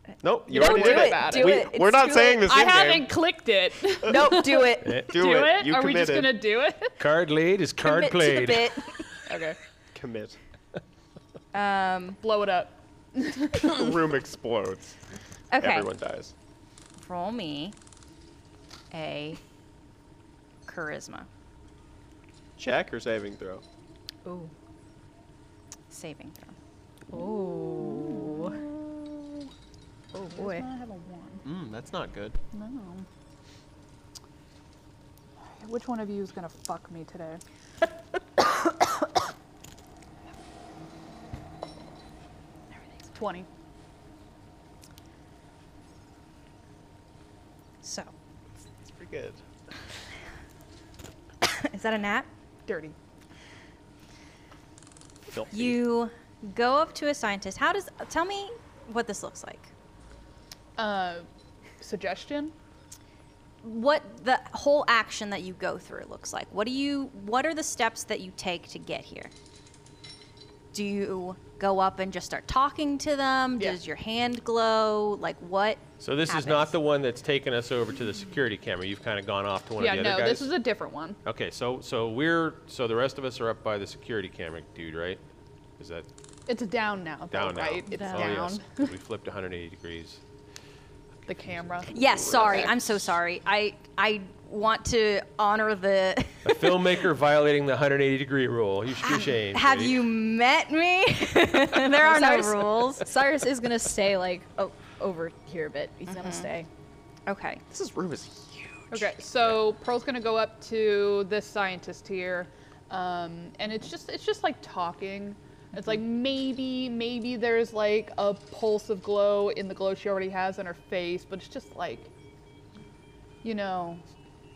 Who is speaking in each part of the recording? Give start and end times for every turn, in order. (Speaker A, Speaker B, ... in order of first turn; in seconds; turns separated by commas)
Speaker A: 0.2-3.1, Speaker B: 0.5-1.6, Speaker C: 0.5-2.4, Speaker B: 2.4-7.0, Speaker C: 4.0-5.0, Speaker D: 4.8-5.1, Speaker A: 5.0-6.5, Speaker D: 7.0-8.9, Speaker C: 7.8-9.0, Speaker B: 9.2-9.6, Speaker A: 9.9-10.4, Speaker C: 11.5-12.2, Speaker B: 12.2-13.9, Speaker A: 13.6-15.0, Speaker C: 15.5-15.9, Speaker A: 15.6-16.3, Speaker C: 17.0-17.8, Speaker C: 18.9-19.4, Speaker C: 20.6-21.3, Speaker A: 22.6-23.6, Speaker E: 24.2-24.5, Speaker C: 25.9-26.5, Speaker E: 27.1-28.6, Speaker B: 27.8-29.5, Speaker E: 30.1-30.6, Speaker B: 30.3-31.4, Speaker A: 31.4-32.4, Speaker B: 32.5-33.1, Speaker B: 35.4-37.4, Speaker B: 43.1-43.5, Speaker C: 47.8-48.1, Speaker A: 48.8-49.4, Speaker C: 51.4-52.3, Speaker B: 52.6-53.0, Speaker A: 55.2-55.8, Speaker C: 55.5-59.7, Speaker B: 60.8-61.2, Speaker B: 61.8-62.5, Speaker C: 63.6-69.3, Speaker C: 70.7-76.7, Speaker D: 76.0-80.5, Speaker B: 79.8-81.2, Speaker D: 81.2-85.2, Speaker D: 85.8-86.1, Speaker B: 86.5-88.9, Speaker D: 87.3-90.2, Speaker E: 87.9-88.3, Speaker B: 91.3-91.9, Speaker C: 91.9-96.8, Speaker A: 92.4-92.7, Speaker D: 96.4-100.0, Speaker C: 99.0-103.1, Speaker E: 101.9-106.7, Speaker C: 106.0-106.5, Speaker C: 107.3-107.6, Speaker A: 107.7-109.5, Speaker B: 108.9-122.1, Speaker B: 123.4-124.0